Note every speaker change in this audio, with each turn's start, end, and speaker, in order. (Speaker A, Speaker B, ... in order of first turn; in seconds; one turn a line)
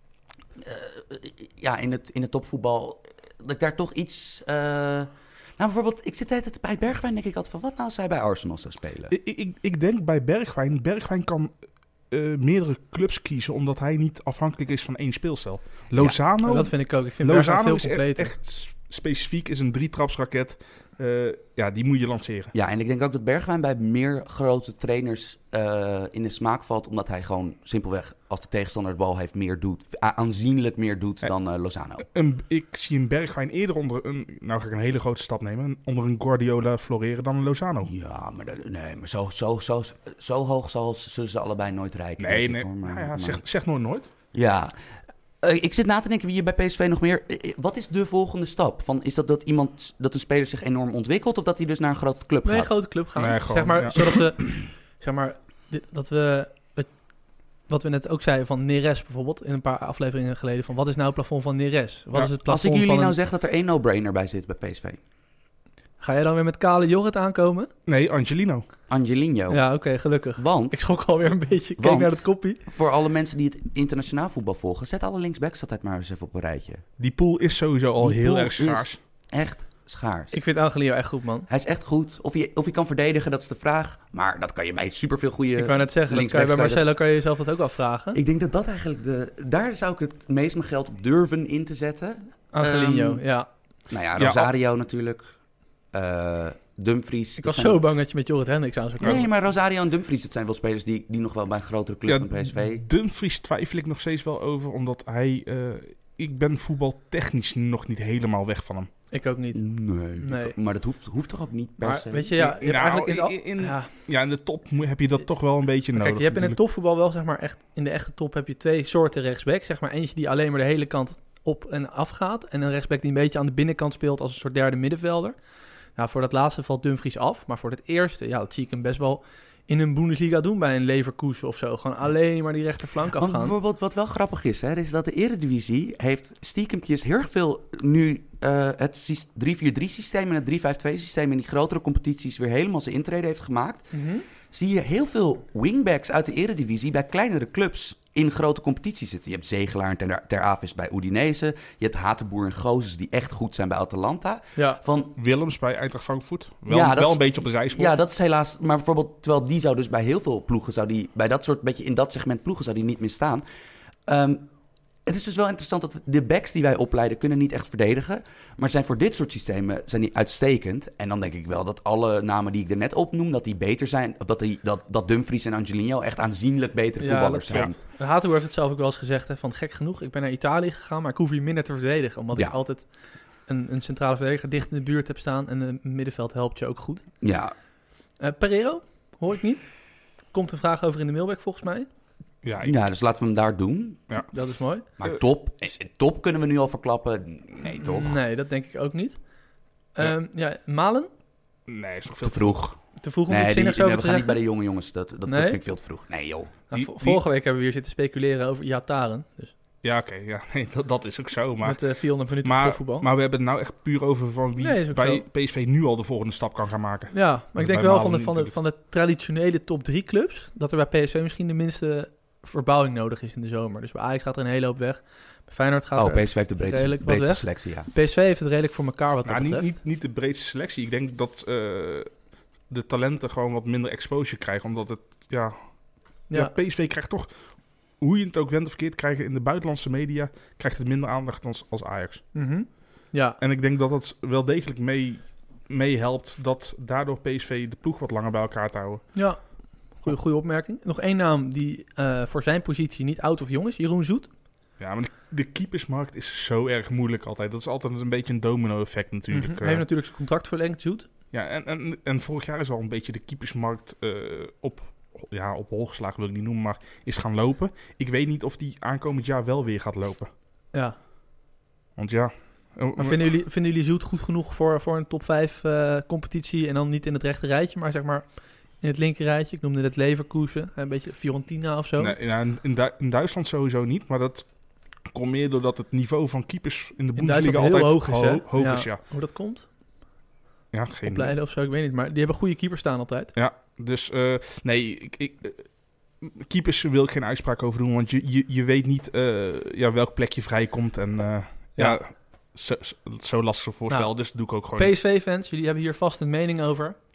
Speaker A: 0.6-9.2
Speaker B: 9.1-11.5
Speaker B: 12.1-22.5
Speaker C: 16.4-18.3
Speaker A: 22.5-32.1
Speaker B: 32.0-37.9
Speaker A: 37.9-43.4
Speaker B: 42.2-44.1
Speaker A: 44.3-44.7
Speaker A: 45.4-52.7
Speaker C: 52.4-56.9
Speaker B: 53.2-54.0
Speaker C: 57.7-63.1
Speaker A: 62.5-65.0
Speaker C: 66.0-67.7
Speaker B: 67.9-68.7
Speaker A: 68.9-69.6
Speaker C: 69.5-72.6
Speaker A: 70.4-70.8
Speaker A: 71.8-76.8
Speaker B: 77.0-79.0
Speaker A: 78.0-80.4
Speaker C: 80.3-81.5
Speaker A: 81.5-87.0
Speaker C: 85.6-88.2
Speaker A: 88.1-93.2
Speaker C: 92.5-93.5
Speaker A: 93.9-95.3
Speaker B: 94.2-94.5
Speaker A: 95.9-97.8
Speaker C: 97.4-99.3
Speaker A: 99.0-102.8
Speaker B: 102.1-108.9
Speaker C: 109.1-109.6
Speaker A: 109.5-112.3
Speaker C: 110.2-110.5
Speaker C: 111.8-113.9
Speaker B: 112.4-116.6
Speaker C: 116.0-125.3
Speaker C: 126.0-133.6
Speaker A: 133.2-143.9
Speaker C: 143.9-144.3
Speaker A: 144.5-155.2
Speaker C: 154.6-154.8
Speaker B: 155.2-157.9
Speaker A: 156.7-163.4
Speaker A: 164.1-164.5
Speaker A: 165.1-177.8
Speaker C: 177.0-182.8
Speaker C: 183.5-187.0
Speaker A: 187.2-187.5
Speaker C: 188.2-189.6
Speaker C: 190.3-191.9
Speaker B: 192.4-192.7
Speaker A: 192.6-194.0
Speaker C: 194.3-194.9
Speaker A: 195.0-198.2
Speaker C: 197.6-199.2
Speaker C: 200.0-201.1
Speaker B: 201.7-202.6
Speaker A: 202.2-202.8
Speaker C: 203.0-204.4
Speaker A: 203.3-206.5
Speaker C: 205.3-205.6
Speaker C: 206.7-209.6
Speaker B: 206.7-207.2
Speaker B: 209.8-211.8
Speaker C: 211.6-213.1
Speaker B: 212.4-218.5
Speaker C: 214.6-215.2
Speaker C: 217.1-229.8
Speaker A: 226.0-227.9
Speaker B: 229.3-232.1
Speaker B: 232.7-235.6
Speaker B: 236.3-237.3
Speaker B: 238.0-242.2
Speaker C: 242.3-243.4
Speaker B: 243.4-249.1
Speaker C: 249.2-249.4
Speaker C: 250.0-254.3
Speaker B: 254.8-259.9
Speaker C: 259.3-261.1
Speaker B: 261.3-270.3
Speaker B: 272.0-273.3
Speaker C: 273.0-278.2
Speaker C: 278.8-282.1
Speaker B: 282.0-284.5
Speaker B: 285.1-289.0
Speaker C: 287.2-289.7
Speaker B: 290.7-291.3
Speaker C: 291.1-293.3
Speaker B: 293.4-295.6
Speaker B: 296.2-305.0
Speaker C: 304.8-307.0